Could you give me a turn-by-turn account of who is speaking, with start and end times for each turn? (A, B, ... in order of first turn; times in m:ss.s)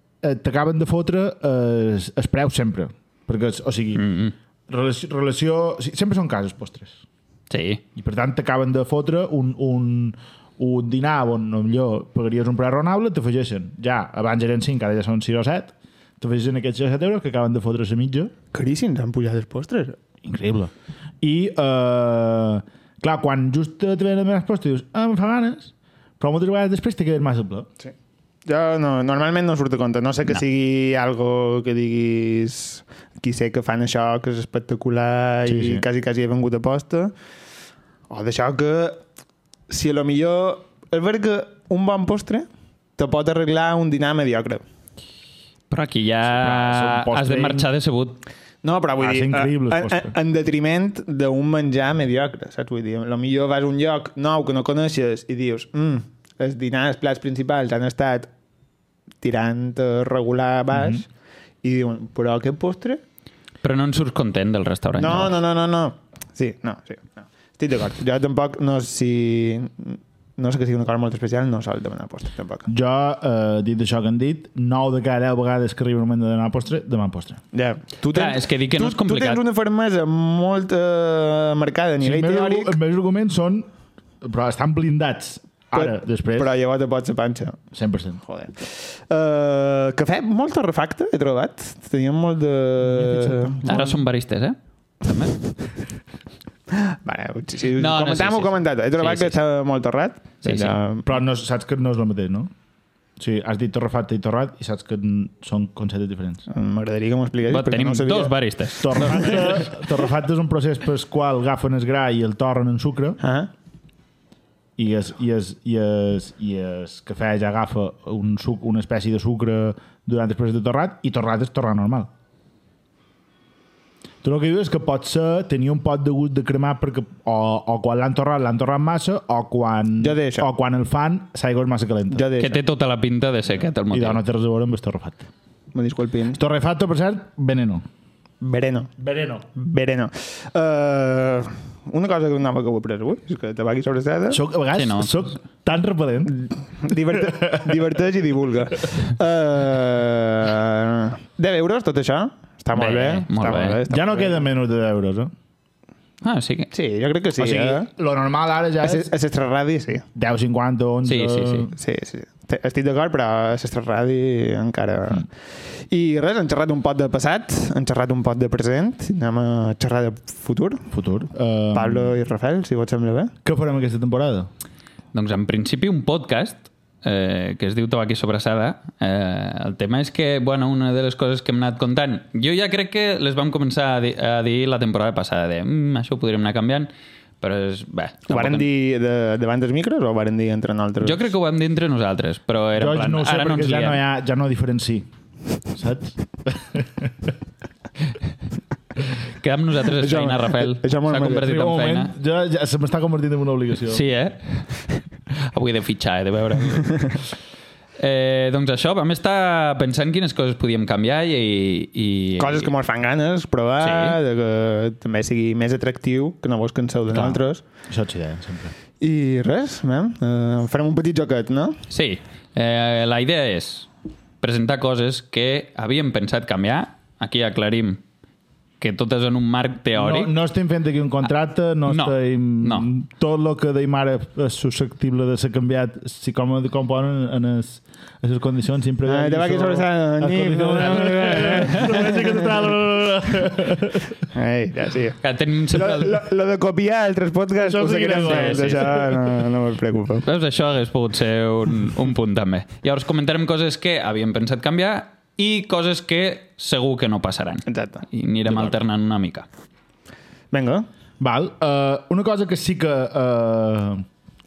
0:00.2-0:04.0 A
0:04.0-0:04.4 B
0:04.7-0:07.0 A
0:07.5-0:07.8 B
0:08.0-0:18.3 A
0:18.5-0:20.0 C
0:20.2-0:27.7 A
0:28.4-0:37.1 C
0:35.4-0:35.8 A
0:38.1-0:39.0 C
0:39.7-0:44.6 C
0:45.7-0:48.2 B
0:46.2-0:47.7 A
0:48.6-0:58.3 C
0:49.0-0:50.1 A
0:59.2-1:01.1 C
1:00.7-1:01.0 A
1:01.6-1:03.0 C
1:03.6-1:05.4 B
1:05.0-1:12.7 C
1:12.7-1:17.4 A
1:17.5-1:22.8 C
1:18.1-1:19.4 B
1:22.0-1:23.7 A
1:24.2-1:26.5 A
1:25.7-1:27.6 C
1:27.7-1:28.2 A
1:28.2-1:34.0 C
1:32.8-1:33.6 A
1:33.6-1:35.4 B
1:36.7-1:41.1 C
1:37.8-1:39.4 B
1:40.4-1:40.7 B
1:41.0-1:42.5 A
1:43.2-1:46.4 A
1:46.5-1:48.4 C
1:47.5-1:49.7 B
1:48.8-1:53.2 A
1:53.2-1:53.5 C
1:54.8-2:02.1 A
2:04.2-2:12.3 A
2:10.0-2:10.5 C
2:12.1-2:12.6 C
2:12.4-2:14.2 B
2:13.9-2:15.3 A
2:15.7-2:16.4 C
2:16.4-2:17.8 A
2:18.4-2:18.9 C
2:19.0-2:19.4 A
2:19.5-2:24.4 C
2:24.3-2:26.4 A
2:24.7-2:25.3 B
2:26.3-2:34.4 C
2:27.1-2:27.8 A
2:32.7-2:33.8 B
2:33.9-2:35.3 A
2:36.2-2:36.7 B
2:36.7-2:37.9 C
2:37.4-2:39.1 A
2:38.8-2:40.0 C
2:40.1-2:41.7 A
2:41.0-2:41.7 B
2:41.7-2:50.9 C
2:50.9-2:52.1 A
2:51.7-2:53.3 C
2:53.4-2:54.5 A
2:55.1-3:08.6 B
3:08.3-3:11.3 C
3:11.0-3:14.0 B
3:12.8-3:15.1 A
3:15.7-3:17.3 A
3:19.4-3:22.1 B
3:20.0-3:21.5 C
3:21.4-3:24.0 A
3:23.9-3:27.3 B
3:28.0-3:32.7 B
3:32.4-3:37.6 C
3:33.8-3:34.2 B
3:37.1-3:38.7 A
3:39.0-3:41.8 C
3:41.9-3:43.9 B
3:44.4-3:48.0 B
3:48.8-3:50.3 B
3:50.0-4:04.2 A
3:51.9-3:52.9 B
3:59.0-4:02.5 C
4:04.3-4:10.3 C
4:05.2-4:06.2 B
4:07.6-4:09.3 A
4:08.2-4:09.0 B
4:10.3-4:19.4 B
4:17.7-4:18.0 C
4:18.5-4:18.8 A
4:20.5-4:20.9 C
4:21.2-4:24.0 A